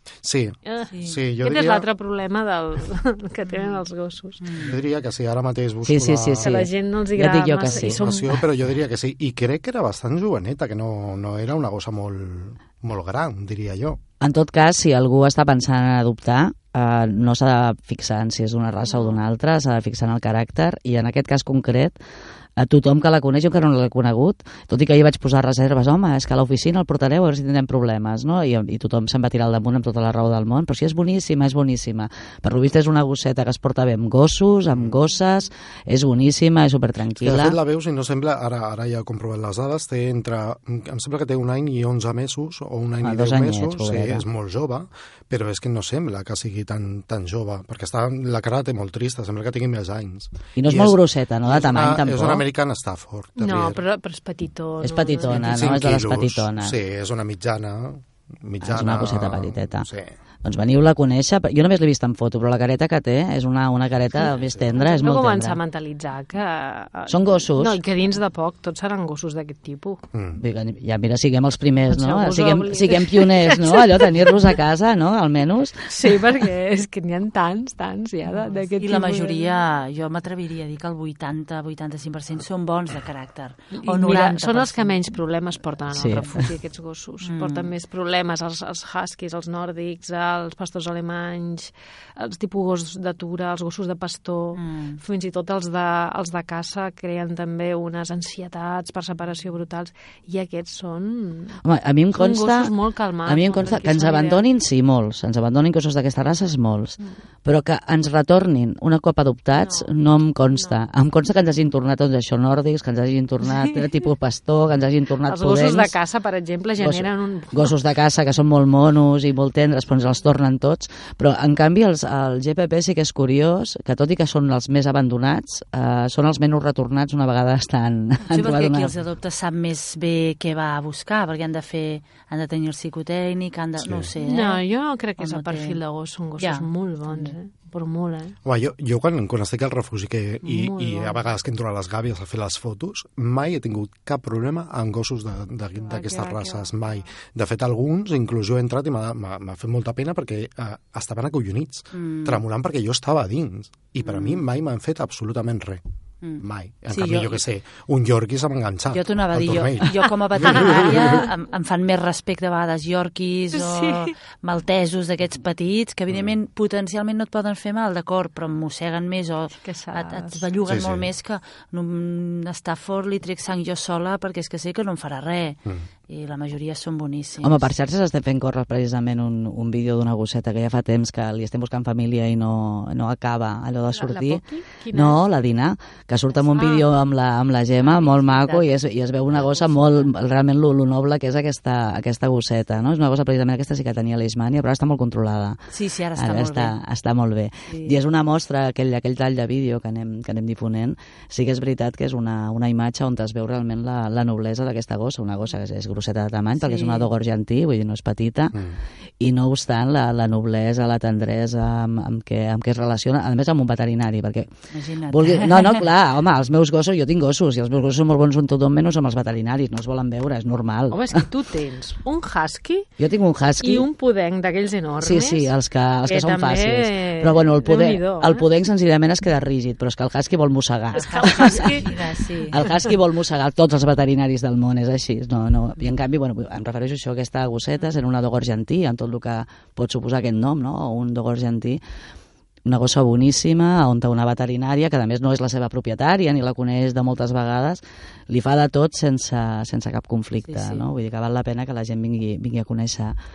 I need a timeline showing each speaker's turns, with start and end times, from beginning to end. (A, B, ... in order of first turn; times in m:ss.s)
0:00.2-0:01.9 A
0:00.7-0:04.7 B
0:00.9-0:01.2 C
0:03.5-0:03.8 C
0:04.4-0:04.8 C
0:04.6-0:06.6 A
0:05.8-0:08.0 D
0:06.4-0:08.4 B
0:07.7-0:14.0 A
0:14.2-0:22.0 D
0:22.6-0:37.6 D
0:37.2-0:53.8 A
0:43.0-0:44.2 D
0:50.6-0:52.4 D
0:53.4-0:55.6 B
0:54.8-0:56.7 D
0:55.3-1:00.1 A
0:58.6-0:59.9 D
1:00.4-1:05.6 D
1:04.3-1:04.7 A
1:04.7-1:10.0 B
1:07.1-1:07.8 D
1:10.1-1:10.4 A
1:10.4-1:16.2 D
1:11.9-1:14.6 B
1:15.9-1:19.6 B
1:18.8-1:25.1 C
1:23.8-1:41.6 B
1:25.9-1:26.5 D
1:27.2-1:27.7 C
1:34.6-1:35.0 C
1:41.6-1:55.9 D
1:42.2-1:44.4 B
1:49.6-1:49.9 B
1:55.3-1:57.7 B
1:56.8-2:08.9 D
2:08.3-2:14.6 C
2:13.8-2:14.1 A
2:14.2-2:18.4 B
2:15.2-2:15.8 C
2:16.4-2:17.4 C
2:18.4-2:35.8 A
2:20.4-2:21.2 B
2:25.8-2:27.0 B
2:31.9-2:32.4 C
2:34.0-2:34.4 C
2:36.2-2:37.4 C
2:36.4-2:41.3 A
2:38.9-2:57.7 C
2:43.5-2:44.1 B
2:49.6-2:50.5 B
2:50.7-2:51.1 A
2:57.4-3:28.6 D
3:03.9-3:05.2 B
3:06.4-3:06.9 B
3:07.8-3:08.7 B
3:15.7-3:16.8 C
3:17.7-3:18.0 C
3:26.6-3:27.1 C
3:29.2-3:34.5 D
3:34.7-3:35.8 C
3:35.1-3:41.3 D
3:40.9-3:42.9 B
3:43.0-3:43.9 D
3:43.6-3:45.5 B
3:45.0-3:51.8 D
3:46.1-3:48.5 B
3:50.9-3:52.6 C
3:51.0-3:51.8 B
3:52.5-4:01.8 D
4:02.7-4:13.2 D
4:10.5-4:10.9 C